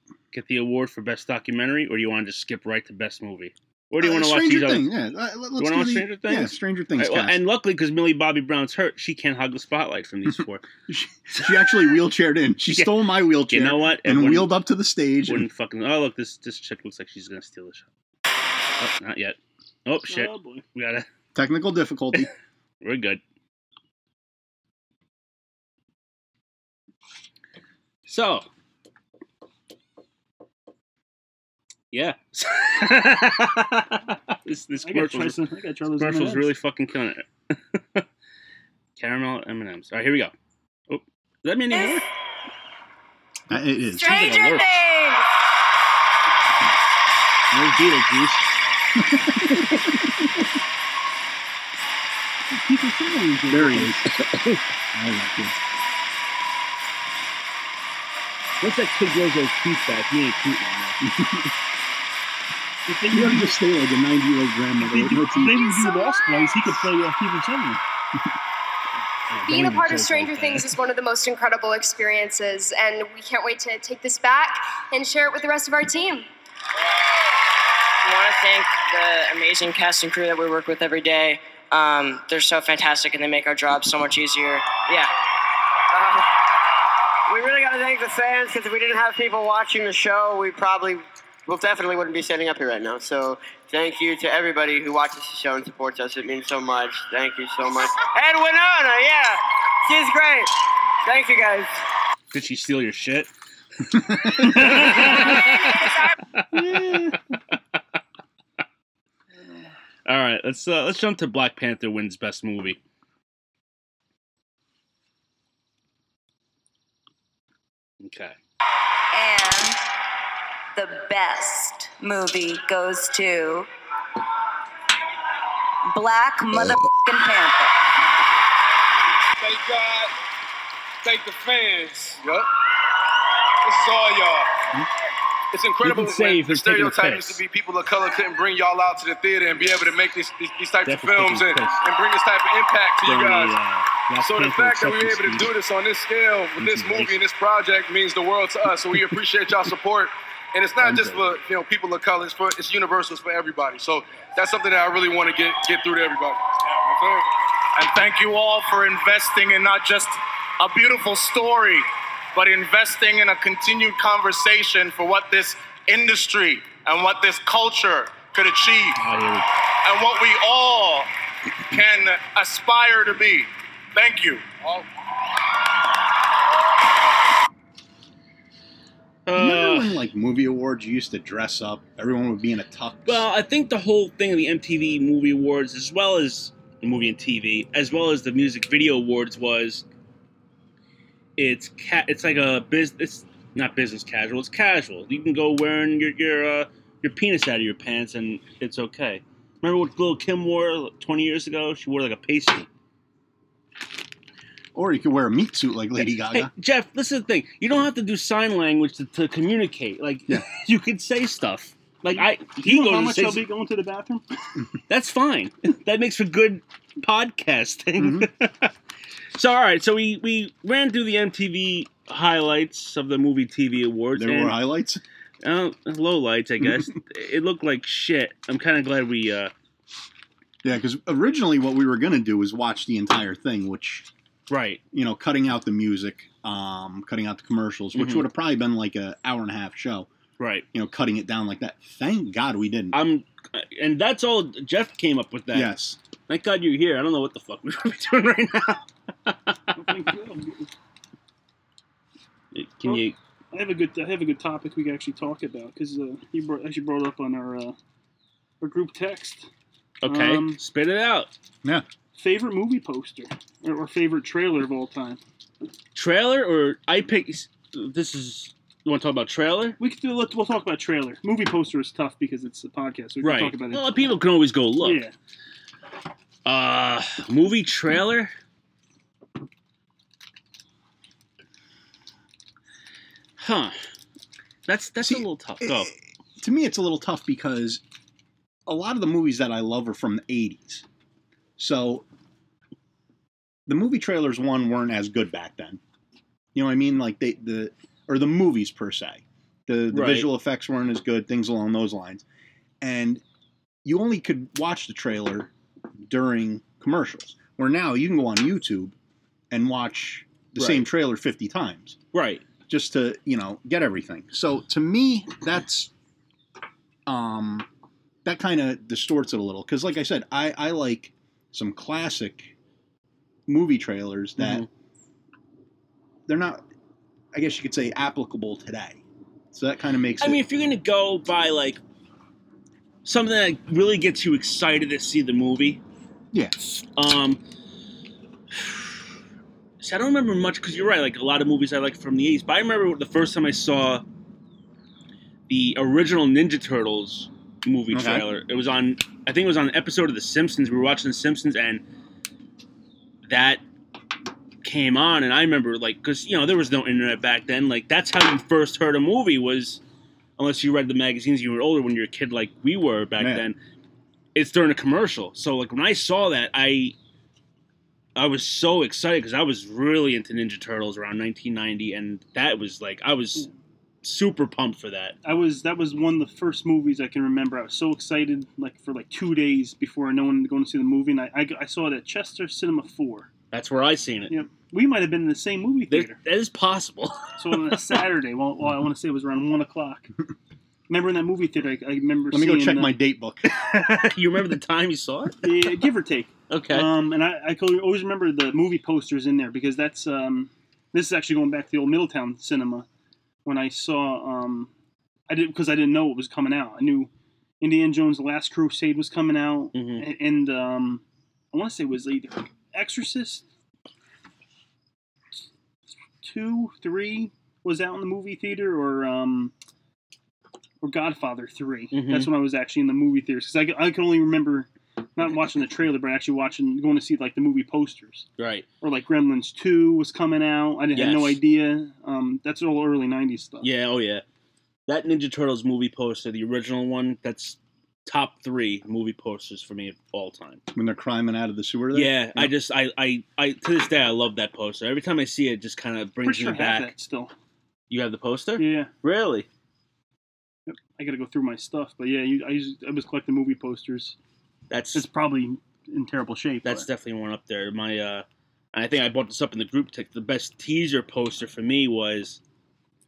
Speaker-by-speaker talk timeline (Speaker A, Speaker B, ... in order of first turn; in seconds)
Speaker A: 0.3-4.9, 5.6-10.7, 12.7-14.6, 15.2-17.9, 18.8-21.1, 22.8-23.2, 28.1-28.5, 31.9-38.0, 39.0-40.3, 40.9-42.1, 44.0-44.8, 47.5-48.5, 49.5-50.0, 54.0-54.6, 58.6-61.0, 69.3-70.7, 102.3-103.3, 103.9-107.8, 110.0-112.8, 118.0-118.3, 135.8-137.4, 140.8-141.8, 143.0-145.5, 146.6-147.2, 150.8-151.3, 169.0-169.5, 179.2-180.0, 183.1-189.8, 191.4-202.7, 206.0-213.4, 214.9-218.7, 219.3-224.6, 225.4-229.5, 234.5-234.8, 237.9-238.3, 240.4-240.7, 242.9-245.7, 246.3-249.8, 252.5-253.2, 260.0-261.3, 265.9-269.8, 273.2-275.0, 276.4-278.3, 283.4-283.8, 284.7-285.9, 299.9-300.3, 310.6-310.9, 312.1-312.4, 324.4-324.7, 330.2-331.8, 333.0-335.8, 336.8-337.4, 338.5-338.9, 339.8-344.0, 345.5-351.8, 353.2-353.6, 354.6-359.8, 360.4-363.6, 364.3-366.9, 368.1-373.5, 374.0-375.2, 383.5-384.3, 385.9-387.8, 393.5-395.8, 396.5-396.9, 409.7-410.1, 421.9-422.3, 428.4-428.7, 430.9-431.4, 433.6-434.2, 434.9-440.6, 441.9-446.9, 447.9-449.5, 454.7-455.1, 456.6-462.4
Speaker B: 4.0-7.4, 10.3-15.5, 21.3-22.3, 43.5-44.1, 53.5-54.1, 54.9-55.5, 61.0-61.5, 63.1-65.6, 179.3-183.2, 204.7-206.5, 218.0-218.3, 224.1-225.0, 230.6-234.1, 234.9-240.1, 240.7-243.0, 245.5-246.0, 285.0-287.8, 288.7-290.8, 291.6-292.1, 293.7-295.8, 296.5-302.2, 302.8-303.2, 303.8-305.5, 306.1-308.9, 309.5-312.0, 312.7-315.9, 317.1-317.7, 318.2-322.5, 323.5-324.6, 326.3-326.6, 327.3-330.4, 336.3-336.8, 347.9-348.2, 363.2-363.5, 392.3-393.5, 440.7-442.5
Speaker C: 20.1-20.6, 34.8-36.5, 52.5-53.9, 62.9-63.6, 64.8-67.8, 104.4-105.4, 106.5-107.2, 212.4-214.5, 249.7-250.7, 252.8-257.8, 258.6-259.5, 260.1-260.6, 262.1-265.2, 269.8-273.9, 274.8-275.1, 375.2-383.3, 384.3-386.2, 387.4-390.1, 390.9-392.9, 395.4-402.9, 403.4-404.7, 405.3-407.1, 407.6-413.4, 416.2-419.5, 420.8-428.3, 428.8-433.7, 446.2-447.3, 448.6-448.9, 450.7-454.1, 454.9-456.9
Speaker D: 44.0-45.2, 119.2-119.8, 120.8-123.7, 125.9-126.3, 127.0-127.6
Speaker E: 69.5-76.3
Speaker F: 78.0-85.1
Speaker G: 87.4-99.3, 100.0-100.4, 101.1-101.6
Speaker H: 129.4-130.1, 131.0-132.2, 133.7-134.1
Speaker I: 132.2-132.4, 134.1-134.4, 135.5-143.6, 144.2-157.2
Speaker J: 157.8-169.0, 169.8-171.1, 171.7-174.6